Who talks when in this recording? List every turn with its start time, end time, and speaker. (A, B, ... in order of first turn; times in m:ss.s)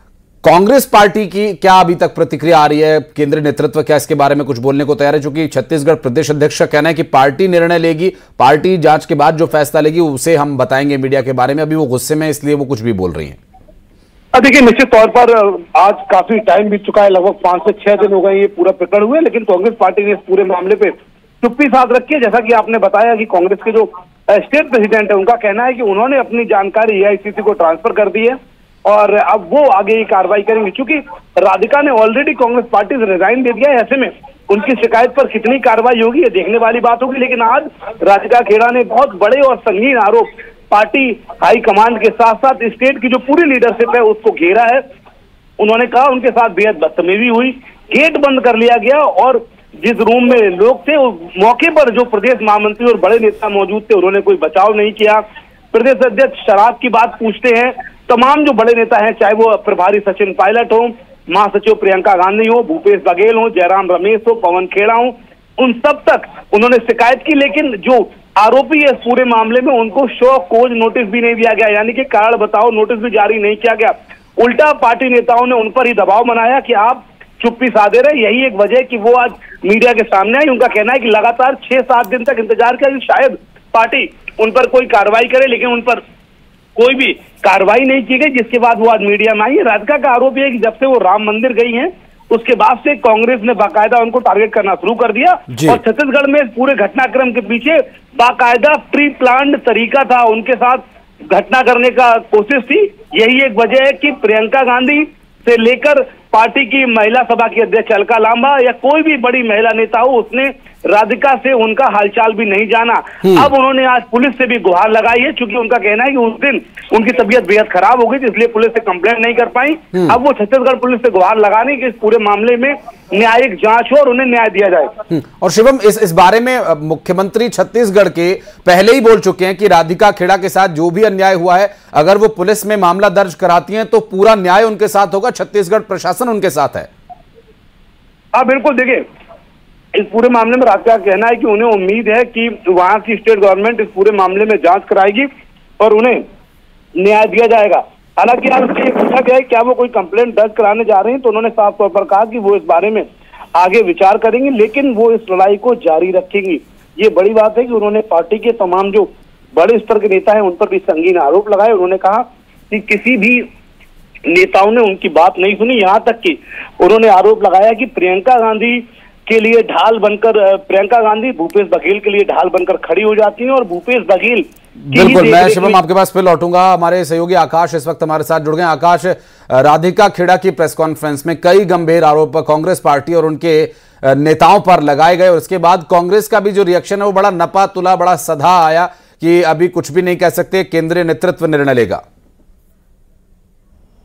0:00.4-0:13.4 A
0:14.3-0:28.3 B
0:28.9-0:44.8 B
0:45.6-0:55.2 B
0:55.7-1:26.0 B
1:26.8-1:40.8 B
1:35.5-1:35.8 A
1:41.3-2:04.9 B
1:53.2-1:53.5 A
2:05.1-2:16.9 A
2:18.3-2:19.0 B
2:20.0-2:25.2 B
2:25.8-2:26.2 B
2:27.0-2:33.0 B
2:33.6-2:39.0 B
2:39.6-2:43.4 B
2:44.3-2:48.7 B
2:49.3-2:54.4 B
2:54.8-3:12.0 A
2:54.9-2:55.8 B